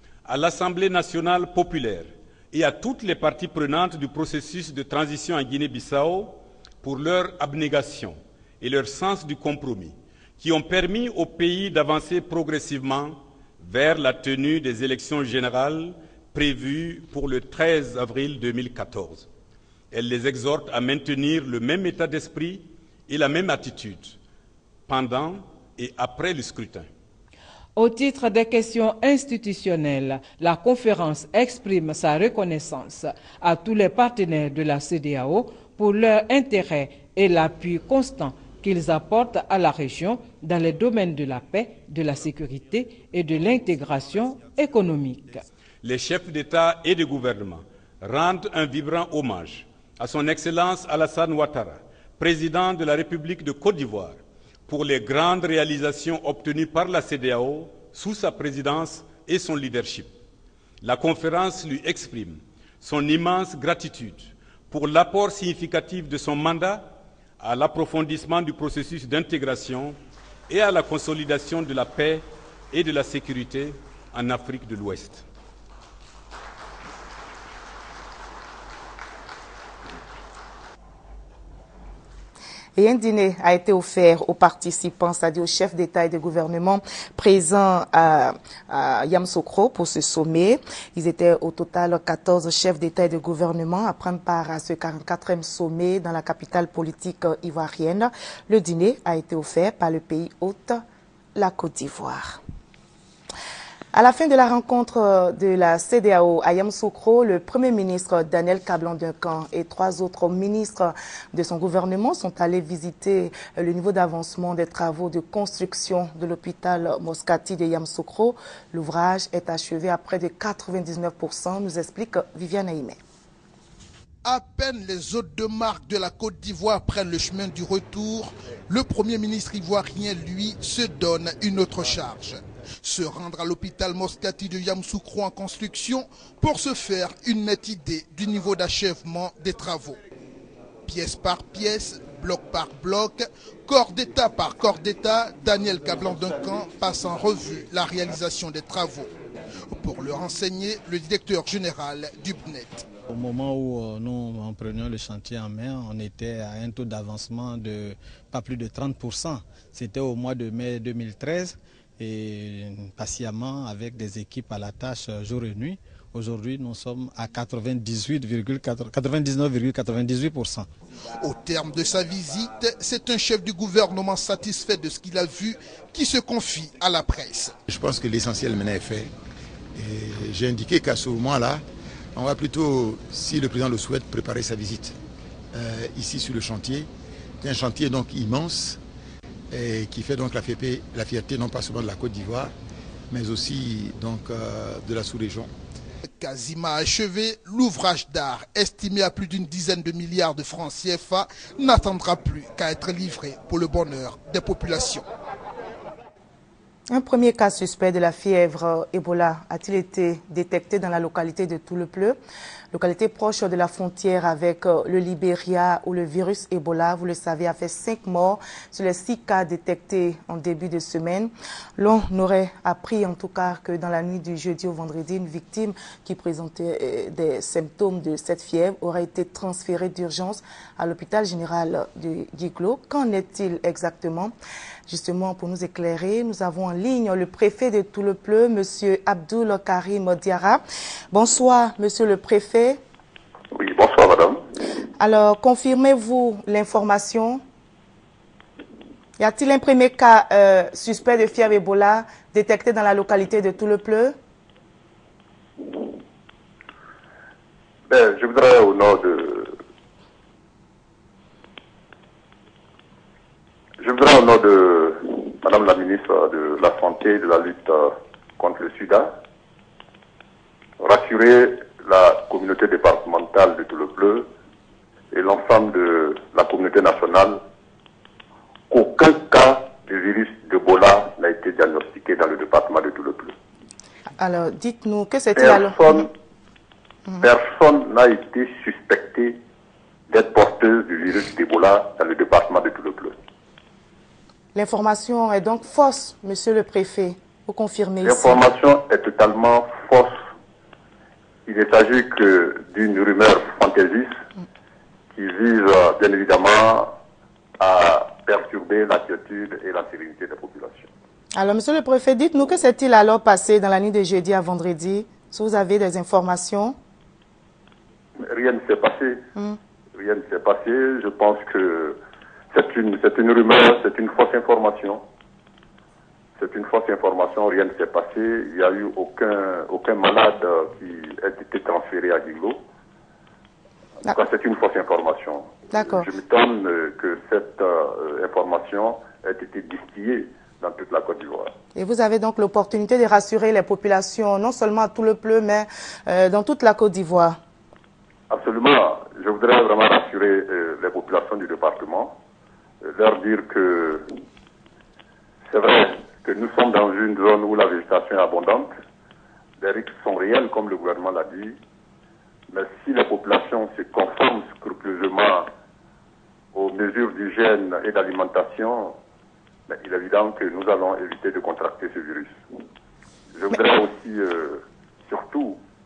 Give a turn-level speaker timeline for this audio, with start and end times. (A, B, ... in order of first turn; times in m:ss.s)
0:00.2-0:19.3 A
0:19.9-0:24.2 A
0:24.9-0:26.9 A
0:27.8-0:45.4 B
0:45.8-1:00.1 A
1:00.8-1:10.0 A
1:10.5-1:15.2 A
1:22.8-1:40.8 C
1:41.4-1:42.4 C
1:43.9-2:03.0 C
2:04.2-2:20.0 D
2:20.9-2:29.1 D
2:29.7-2:32.9 D
2:33.1-2:50.7 E
2:51.2-2:57.6 D
2:57.7-2:59.1 F
2:59.8-3:01.6 F
3:02.2-3:05.0 F
3:05.5-3:06.9 F
3:07.4-3:08.8 F
3:09.5-3:12.5 F
3:13.1-3:15.5 F
3:16.1-3:25.1 D
3:26.9-3:32.2 C
3:32.7-3:54.3 C
3:54.9-4:02.8 C
4:03.5-4:04.4 G
4:05.0-4:07.4 C
4:09.2-4:14.1 C
4:17.9-4:19.6 G
4:23.8-4:29.2 G
4:30.8-4:34.3 G
4:35.1-4:37.4 G
4:38.7-4:43.4 G
4:44.2-4:46.1 C
4:45.4-4:46.1 G
4:47.2-4:49.4 G
4:50.1-4:53.1 G
4:54.6-4:58.4 C
4:58.0-5:00.3 G
5:01.5-5:04.2 G
5:05.1-5:07.0 G
5:07.6-5:10.9 G
5:11.4-5:16.8 C
5:18.2-5:19.2 G
5:20.0-5:22.0 G
5:22.5-5:25.0 G
5:26.4-5:32.6 G
5:34.1-5:41.5 G
5:35.7-5:36.1 C
5:41.8-5:47.4 C
5:48.3-5:52.2 G
5:52.8-5:54.1 G
5:55.5-5:58.7 G
5:59.6-6:01.6 G
6:02.5-6:05.5 G
6:06.5-6:09.0 G
6:09.7-6:12.4 G
6:13.4-6:15.6 G